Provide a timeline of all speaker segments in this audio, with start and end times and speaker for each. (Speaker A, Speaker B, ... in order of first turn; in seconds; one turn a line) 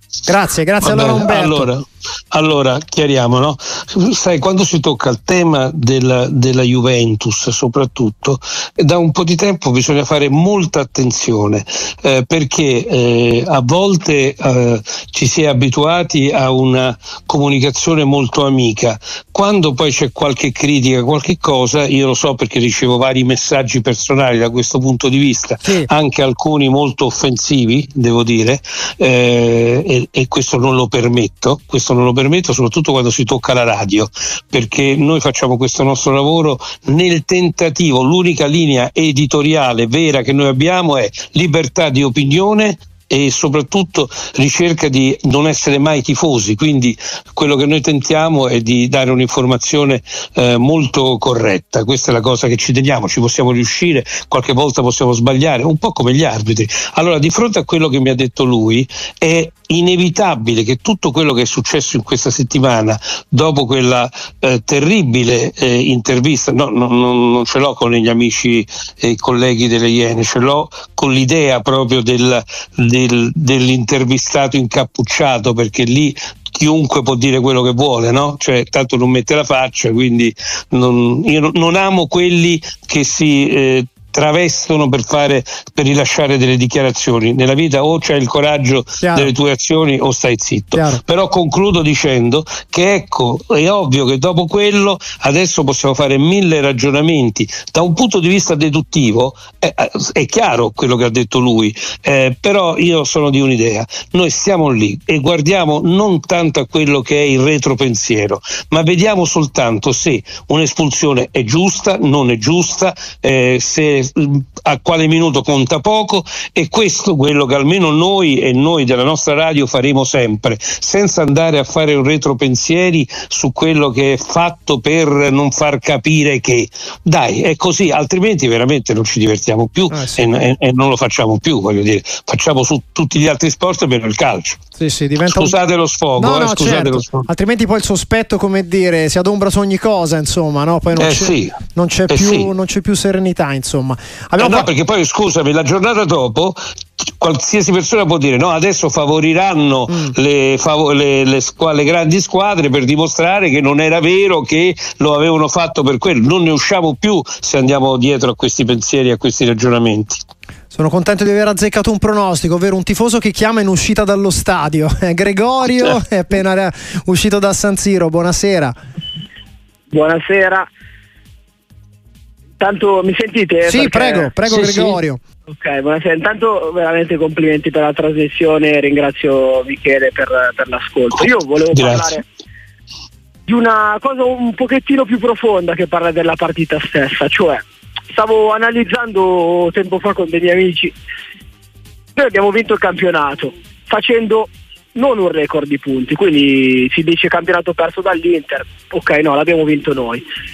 Speaker A: 0.3-1.7
Speaker B: 0.8-134.6
Speaker A: 25.6-25.9
Speaker A: 89.0-89.3
Speaker A: 90.7-91.0
Speaker A: 129.9-130.2
Speaker A: 134.8-135.6
Speaker B: 135.2-137.3
Speaker A: 136.2-144.7
Speaker B: 140.9-141.6
Speaker B: 142.1-142.5
Speaker B: 144.4-160.2
Speaker A: 160.7-168.7
Speaker C: 169.9-170.7
Speaker C: 172.6-174.3
Speaker A: 173.7-175.2
Speaker B: 174.4-175.0
Speaker C: 175.5-182.2
Speaker B: 181.7-182.1
Speaker C: 183.5-190.9
Speaker C: 192.2-200.2